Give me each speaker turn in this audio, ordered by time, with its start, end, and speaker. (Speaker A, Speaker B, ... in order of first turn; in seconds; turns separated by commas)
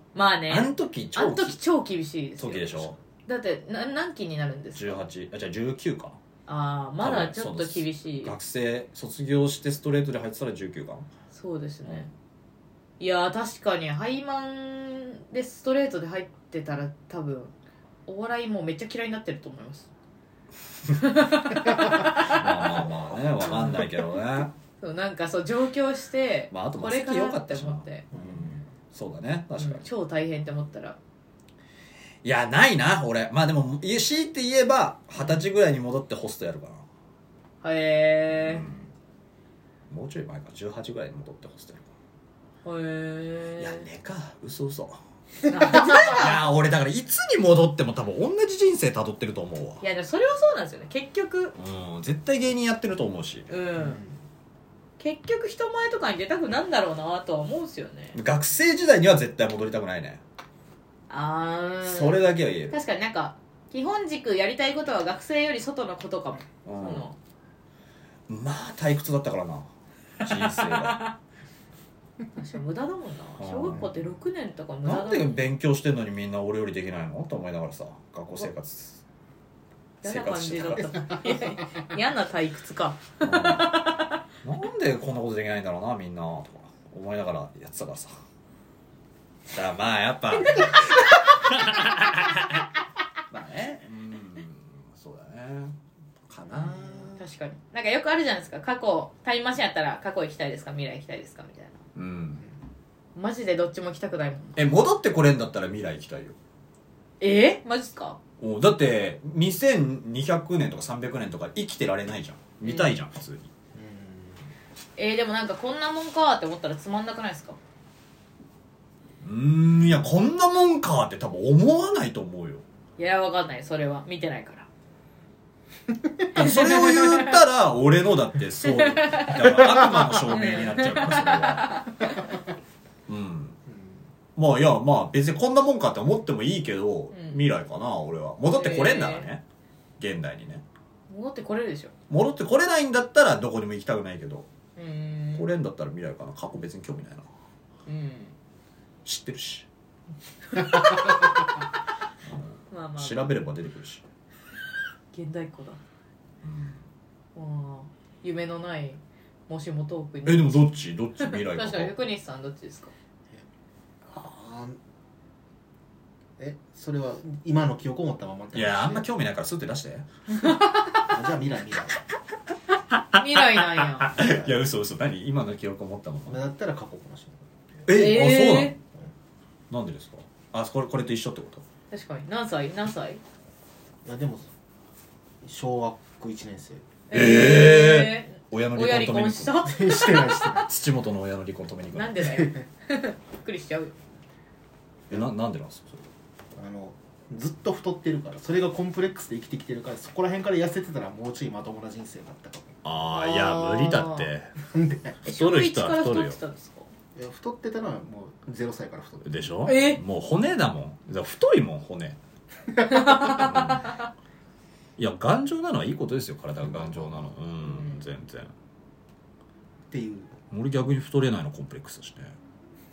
Speaker A: 0.1-5.0, Speaker B: 0.5-1.6, Speaker B: 2.4-3.0, Speaker B: 4.8-6.2, Speaker A: 6.5-8.3, Speaker B: 7.0-11.1, Speaker A: 11.3-12.1, Speaker A: 13.0-17.5, Speaker A: 18.1-19.9, Speaker A: 21.0-22.7, Speaker B: 21.9-24.5, Speaker A: 23.5-23.9, Speaker A: 24.8-28.1, Speaker B: 26.5-29.9, Speaker C: 28.1-28.5, Speaker A: 29.6-31.0, Speaker B: 32.2-36.9, Speaker A: 37.6-38.7, Speaker B: 38.4-38.9, Speaker B: 39.9-41.9, Speaker A: 42.6-43.9, Speaker B: 43.6-45.0, Speaker A: 45.5-46.4, Speaker B: 45.8-49.8, Speaker A: 49.8-51.5, Speaker B: 51.6-53.5, Speaker A: 53.5-54.0, Speaker C: 53.8-54.2, Speaker A: 55.0-58.2, Speaker B: 58.1-60.2, Speaker A: 61.1-67.2, Speaker B: 61.8-62.8, Speaker B: 66.7-67.1, Speaker B: 68.3-69.7, Speaker B: 70.2-71.0, Speaker A: 70.2-71.2, Speaker A: 72.3-75.4, Speaker B: 73.4-73.9, Speaker B: 74.8-79.0, Speaker A: 80.0-84.2, Speaker B: 80.0-81.0, Speaker B: 83.2-83.8, Speaker B: 84.4-88.2, Speaker B: 89.5-92.6, Speaker B: 93.3-95.8, Speaker B: 96.3-97.2, Speaker A: 96.5-101.8, Speaker B: 102.0-102.4, Speaker A: 103.2-104.7, Speaker B: 104.6-106.4, Speaker A: 107.2-108.2, Speaker B: 108.4-113.5, Speaker A: 112.6-113.0, Speaker C: 113.8-114.5, Speaker A: 115.0-117.6, Speaker B: 119.2-122.6, Speaker A: 123.0-124.7, Speaker A: 126.3-127.4, Speaker B: 126.3-131.8, Speaker A: 128.6-132.3, Speaker B: 133.1-133.6, Speaker C: 133.7-134.0, Speaker B: 134.4-139.4, Speaker A: 137.1-137.4, Speaker A: 138.5-139.3, Speaker B: 140.0-140.6, Speaker A: 141.1-141.9, Speaker B: 142.1-144.5, Speaker A: 144.8-145.5, Speaker B: 145.3-147.3, Speaker A: 147.9-148.3, Speaker B: 149.1-149.7, Speaker A: 150.5-151.3, Speaker B: 152.3-154.0, Speaker A: 152.7-153.4, Speaker A: 155.1-155.8, Speaker B: 156.4-156.8, Speaker A: 157.3-160.7, Speaker B: 160.2-161.9, Speaker A: 161.2-162.9, Speaker C: 164.1-164.8, Speaker C: 166.4-169.0, Speaker B: 168.5-170.1, Speaker A: 170.4-170.8, Speaker C: 171.1-172.0, Speaker B: 172.9-176.4, Speaker A: 173.2-174.1, Speaker C: 174.2-174.5, Speaker C: 176.3-177.5, Speaker B: 177.9-178.8, Speaker A: 177.9-178.8, Speaker B: 179.7-181.6, Speaker A: 181.9-183.2, Speaker C: 184.1-184.5, Speaker C: 185.4-186.8, Speaker A: 187.1-190.7, Speaker B: 187.1-189.7, Speaker C: 189.7-190.7, Speaker B: 190.7-192.2, Speaker A: 191.9-193.9, Speaker C: 192.4-192.6, Speaker B: 195.1-196.1, Speaker C: 196.6-202.8, Speaker B: 202.8-204.5, Speaker A: 203.0-204.3, Speaker C: 204.7-205.2, Speaker A: 205.2-206.9, Speaker B: 205.2-206.4, Speaker C: 207.2-209.4, Speaker B: 209.2-212.2, Speaker A: 209.7-210.0, Speaker A: 212.9-214.0, Speaker B: 213.2-213.9, Speaker B: 215.0-218.5, Speaker C: 216.6-217.2, Speaker A: 217.7-218.0, Speaker C: 219.9-220.3, Speaker B: 220.5-222.3